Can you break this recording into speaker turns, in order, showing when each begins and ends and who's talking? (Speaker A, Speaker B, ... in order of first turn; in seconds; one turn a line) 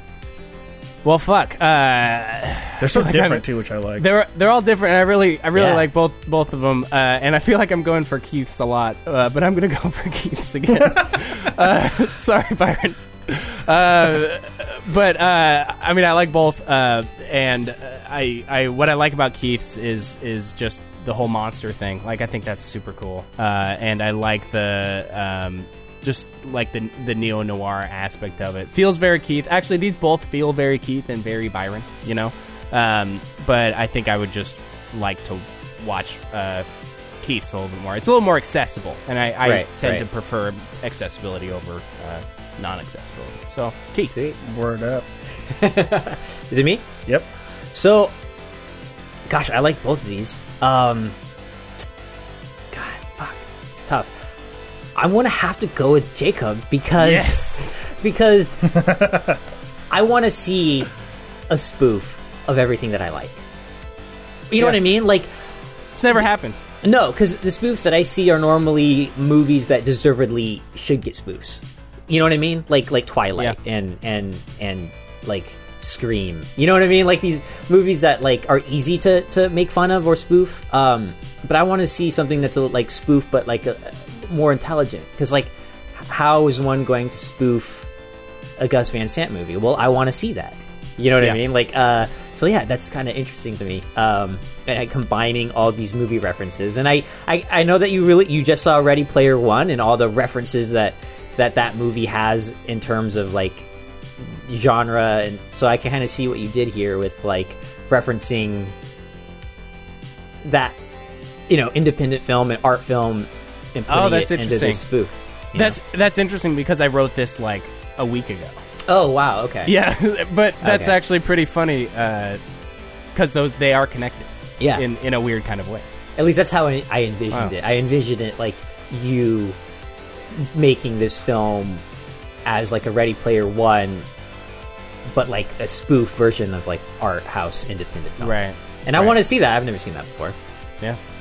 Speaker A: 1.0-36.7
Speaker B: 2.8-4.1
Speaker C: 5.5-5.8
Speaker A: 37.2-44.1
Speaker C: 39.4-40.1
Speaker C: 44.1-44.4
Speaker B: 44.4-45.1
Speaker C: 45.5-46.9
Speaker C: 47.7-48.1
Speaker C: 49.3-51.2
Speaker C: 52.7-54.2
Speaker C: 55.0-58.9
Speaker A: 57.0-57.8
Speaker B: 58.8-59.4
Speaker C: 59.9-60.9
Speaker C: 61.5-63.5
Speaker C: 64.5-65.3
Speaker A: 64.6-64.9
Speaker A: 65.9-66.6
Speaker C: 66.8-87.9
Speaker C: 88.6-103.7
Speaker C: 104.2-108.8
Speaker C: 110.4-110.8
Speaker C: 111.5-115.8
Speaker A: 113.9-114.8
Speaker A: 115.5-118.6
Speaker C: 118.9-119.8
Speaker A: 119.7-122.4
Speaker C: 120.6-121.0
Speaker A: 123.1-125.8
Speaker C: 124.6-124.9
Speaker C: 126.2-129.6
Speaker C: 130.3-131.8
Speaker C: 132.4-134.1
Speaker C: 135.1-140.4
Speaker A: 138.2-139.2